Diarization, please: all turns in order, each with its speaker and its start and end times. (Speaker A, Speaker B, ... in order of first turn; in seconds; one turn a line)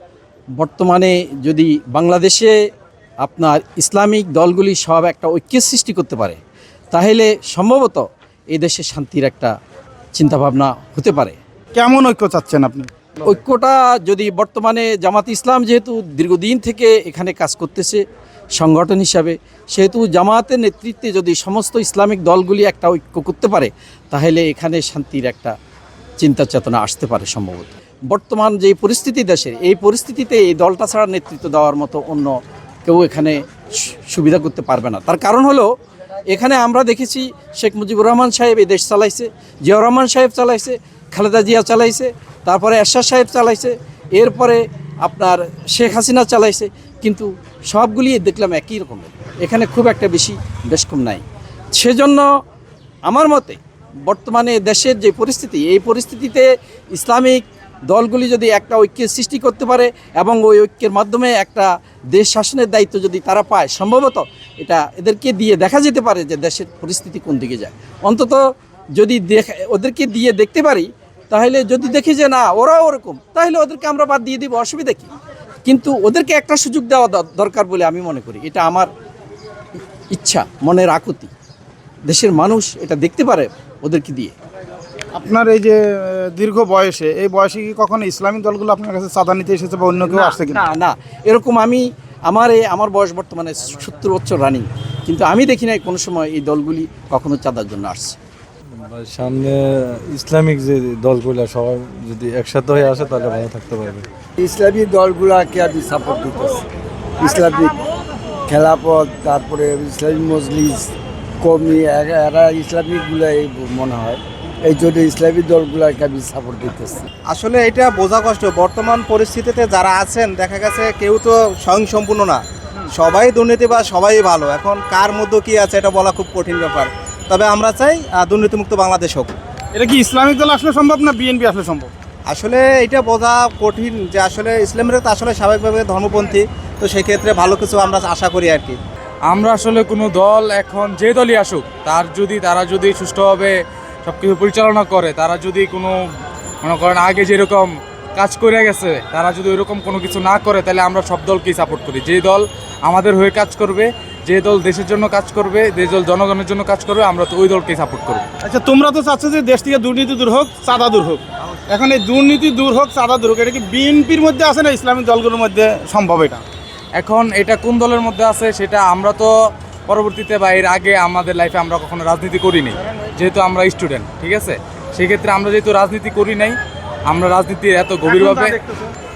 Speaker A: 0.6-2.6
Speaker A: 3.2-6.4
Speaker A: 6.9-9.6
Speaker A: 10.2-11.4
Speaker B: 11.8-12.9
Speaker A: 13.2-18.0
Speaker A: 18.6-25.6
Speaker A: 26.2-35.7
Speaker A: 36.3-51.2
Speaker A: 51.7-52.3
Speaker A: 53.1-68.4
Speaker A: 69.0-75.1
Speaker A: 75.7-78.9
Speaker A: 80.1-81.3
Speaker A: 82.1-84.4
Speaker B: 85.1-90.6
Speaker A: 90.1-98.2
Speaker C: 98.7-104.1
Speaker D: 104.4-106.6
Speaker D: 107.2-107.8
Speaker D: 108.5-117.1
Speaker E: 117.3-129.3
Speaker B: 129.8-131.9
Speaker E: 132.3-138.8
Speaker F: 139.3-146.0
Speaker F: 146.6-158.2
Speaker B: 158.4-166.4
Speaker F: 167.0-169.3
Speaker F: 169.9-176.6
Speaker F: 177.1-178.6
Speaker B: 178.1-178.9